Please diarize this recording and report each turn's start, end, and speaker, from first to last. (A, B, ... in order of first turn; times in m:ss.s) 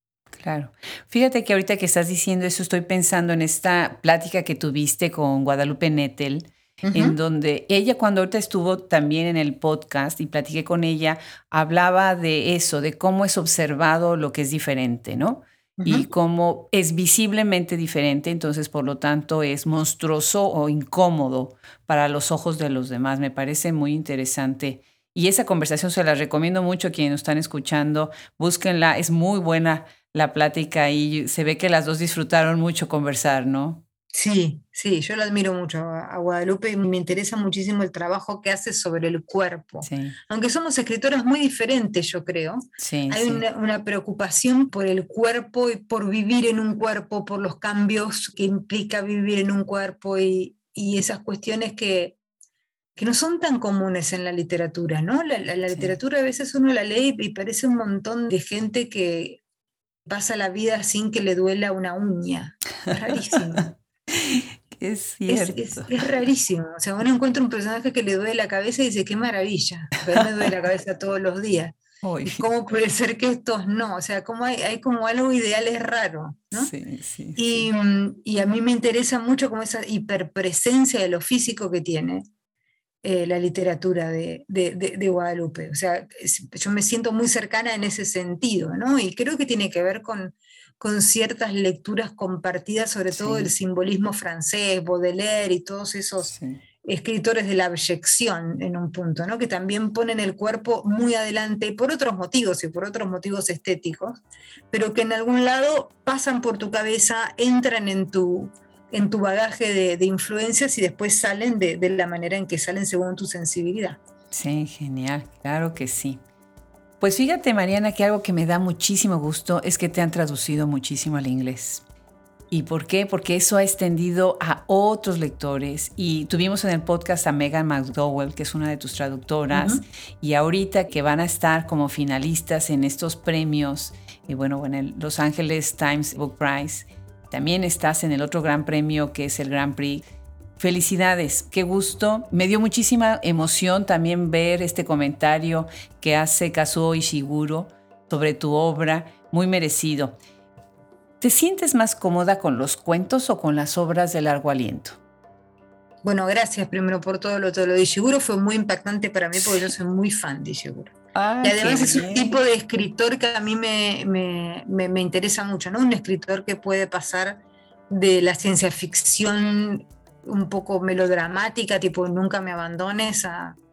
0:00.3-0:33.8 A
0:06.8-0:07.2 B
0:15.8-0:16.1 B
0:34.1-0:52.2 B
0:39.8-0:40.2 A
0:42.8-0:43.4 A
0:53.0-0:59.4 B
1:00.0-1:03.7 B
1:04.1-1:05.9 A
1:05.3-1:16.7 B
1:12.0-1:12.4 A
1:16.5-1:17.6 A
1:17.4-1:22.2 B
1:23.0-1:44.2 B
1:33.1-1:33.5 A
1:36.3-1:36.6 A
1:44.7-1:54.0 B
1:54.3-1:56.2 A
1:57.0-2:01.8 A
2:02.5-2:20.0 A
2:09.5-2:09.8 B
2:20.6-2:30.2 A
2:31.2-2:35.0 A
2:36.0-2:53.6 B
2:41.1-2:42.4 A